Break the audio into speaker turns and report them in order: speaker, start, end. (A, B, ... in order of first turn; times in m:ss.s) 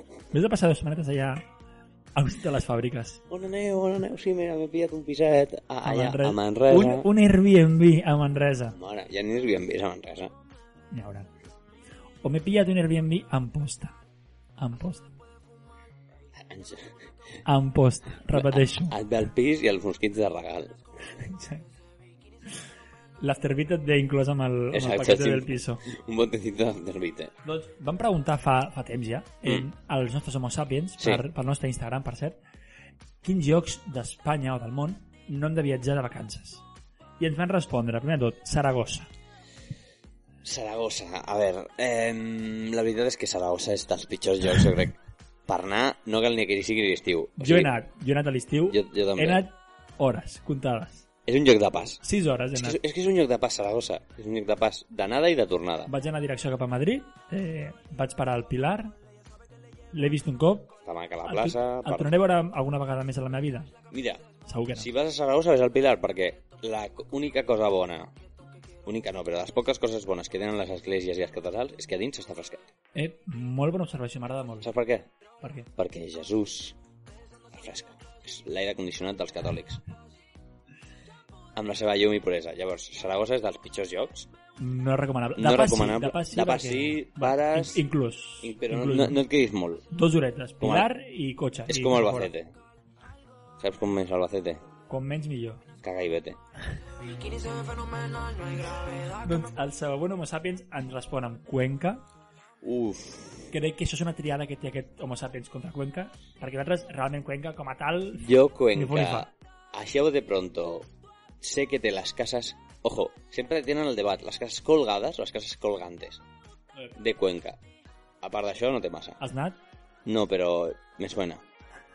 0:00.3-0:01.5 A
0:02.1-0:03.2 A
0:03.3-0:07.1 B
0:05.8-0:08.8 A
0:08.7-0:10.3 B
0:10.9-0:11.3 A
0:12.2-0:14.0 A
0:14.6-0:15.1 A
0:16.4-0:17.0 B
0:17.4-0:19.0 A
0:18.3-0:20.8 B
0:21.1-0:21.6 A
0:23.2-0:25.8 A
0:24.7-0:27.3 B
0:27.4-0:32.4 A
0:33.2-0:36.6 A
0:37.2-0:39.1 A
0:40.4-0:47.7 B
0:47.4-0:51.0 A
0:48.7-0:49.4 B
0:51.2-0:52.0 B
0:52.0-0:52.8 A
0:52.5-0:55.9 B
0:55.9-0:58.9 A
0:59.9-1:03.7 A
1:00.8-1:02.1 B
1:03.9-1:08.1 B
1:04.4-1:04.9 A
1:08.8-1:12.7 B
1:12.9-1:14.7 A
1:14.6-1:15.1 B
1:15.4-1:15.7 A
1:15.8-1:16.8 B
1:17.5-1:19.8 B
1:21.6-1:24.3 B
1:24.6-1:29.2 A
1:25.4-1:27.8 B
1:28.4-1:29.9 B
1:29.9-1:32.3 A
1:30.6-1:30.9 B
1:31.7-1:32.5 B
1:33.6-1:34.6 B
1:34.9-1:35.6 A
1:35.8-1:36.4 B
1:39.1-1:42.0 A
1:42.6-1:43.5 B
1:43.5-1:49.3 A
1:48.2-1:50.9 B
1:51.4-1:56.2 B
1:56.9-1:57.6 B
1:58.2-1:59.2 B
1:59.2-1:59.6 A
2:00.0-2:01.4 B